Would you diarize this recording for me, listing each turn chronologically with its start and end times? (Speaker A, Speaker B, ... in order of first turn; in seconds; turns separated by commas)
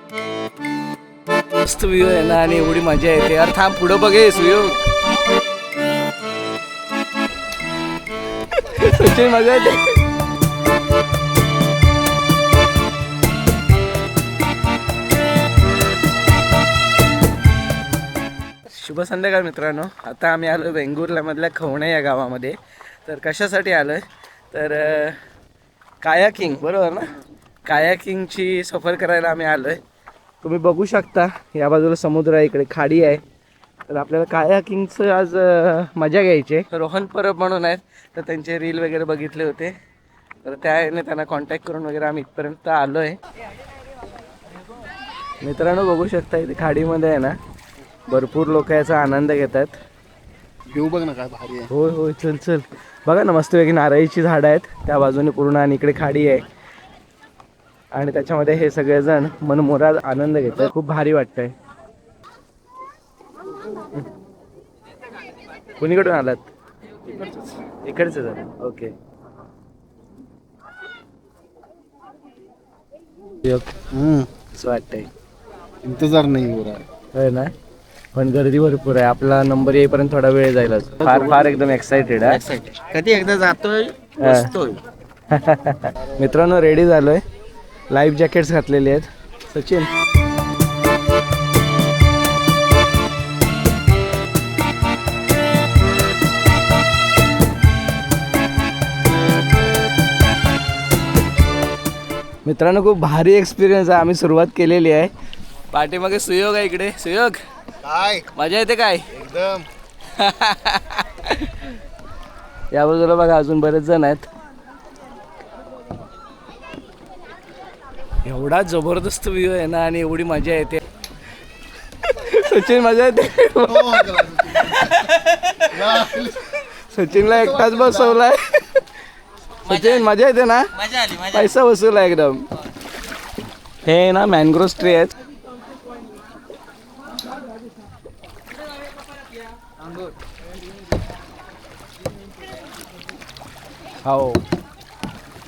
Speaker A: 1.6-4.8, Speaker A: 8.5-10.0, Speaker A: 18.7-25.2, Speaker A: 26.0-27.1, Speaker A: 27.6-29.8, Speaker A: 30.4-33.2, Speaker A: 33.9-39.7, Speaker A: 40.4-43.2, Speaker A: 45.4-47.4, Speaker A: 48.1-49.8, Speaker B: 50.7-51.7, Speaker A: 51.7-56.5, Speaker A: 57.9-61.5, Speaker A: 65.8-66.5, Speaker A: 67.1-68.9, Speaker B: 73.9-74.3, Speaker A: 74.5-75.1, Speaker B: 75.8-76.8, Speaker A: 77.1-77.5, Speaker A: 78.1-82.4, Speaker C: 82.3-84.8, Speaker A: 84.2-84.5, Speaker A: 85.3-87.2, Speaker A: 87.9-89.9, Speaker A: 102.4-105.1, Speaker A: 105.7-107.4, Speaker B: 107.8-108.3, Speaker A: 108.3-109.1, Speaker B: 109.1-109.6, Speaker A: 110.2-111.7, Speaker A: 112.7-114.3, Speaker A: 118.2-120.8, Speaker A: 122.0-126.2, Speaker B: 123.7-124.9, Speaker B: 125.7-126.5, Speaker A: 126.8-128.8, Speaker B: 127.2-128.2, Speaker A: 129.6-132.4, Speaker C: 129.7-130.0, Speaker C: 130.9-131.5, Speaker A: 133.8-135.1, Speaker A: 144.1-144.4